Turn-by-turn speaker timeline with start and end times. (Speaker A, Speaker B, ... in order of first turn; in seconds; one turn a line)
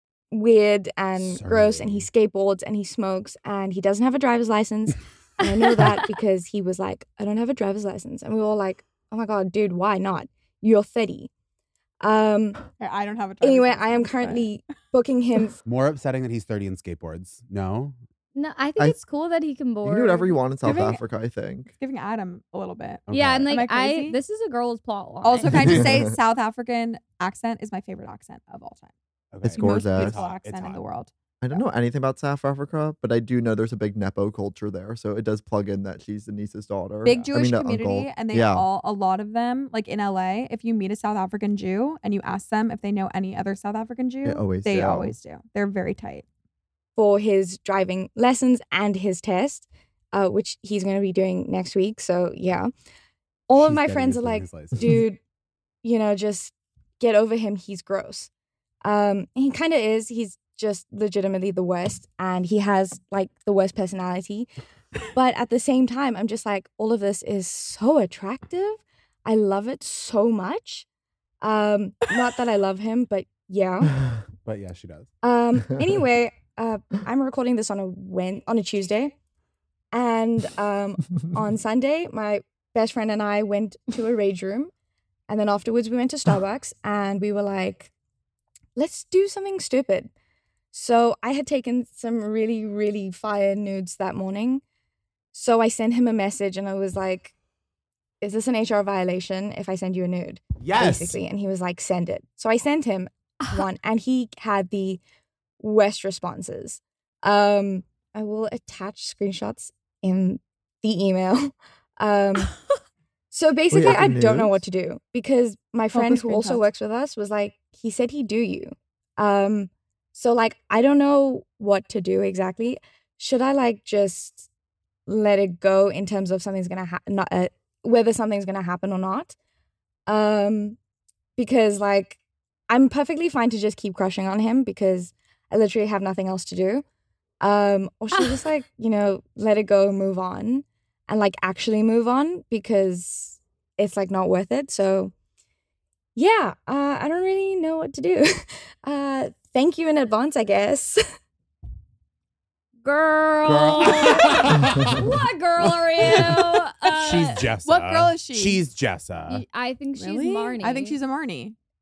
Speaker A: 0.3-11.3
Speaker B: 1.1-2.1
Speaker A: 12.0-12.6
Speaker C: 12.8-14.5
Speaker A: 13.4-15.6
Speaker B: 15.7-18.0
Speaker D: 18.4-20.4
Speaker E: 19.8-21.7
Speaker C: 20.6-21.0
Speaker C: 21.8-24.2
Speaker B: 23.1-23.5
Speaker D: 23.1-25.8
Speaker C: 25.2-28.9
Speaker B: 25.5-25.8
Speaker E: 25.6-26.1
Speaker B: 29.3-30.8
Speaker E: 29.4-30.2
Speaker C: 29.6-31.6
Speaker E: 31.4-38.7
Speaker C: 37.0-46.2
Speaker E: 44.2-45.1
Speaker A: 47.0-52.7
Speaker A: 53.5-55.2
Speaker B: 53.5-55.0
Speaker A: 55.8-58.3
Speaker A: 58.8-64.5
Speaker A: 65.1-70.9
Speaker A: 71.4-74.0
Speaker B: 74.5-75.1
Speaker A: 75.2-79.2
Speaker A: 79.9-84.7
Speaker A: 85.3-87.9
Speaker A: 88.8-90.1
Speaker A: 90.7-94.6
Speaker A: 95.3-97.3
Speaker A: 98.2-105.0
Speaker B: 100.6-101.2
Speaker A: 105.6-112.5
Speaker A: 113.3-124.5
Speaker E: 113.7-114.6
Speaker C: 115.9-116.7
Speaker A: 125.1-129.4
Speaker A: 130.1-130.8
Speaker A: 131.4-136.8
Speaker A: 137.4-145.1
Speaker A: 146.2-151.0
Speaker D: 152.8-157.5
Speaker B: 153.5-155.0
Speaker B: 155.7-156.4
Speaker B: 157.0-159.4
Speaker C: 157.7-158.6
Speaker D: 159.3-161.0
Speaker C: 160.0-161.6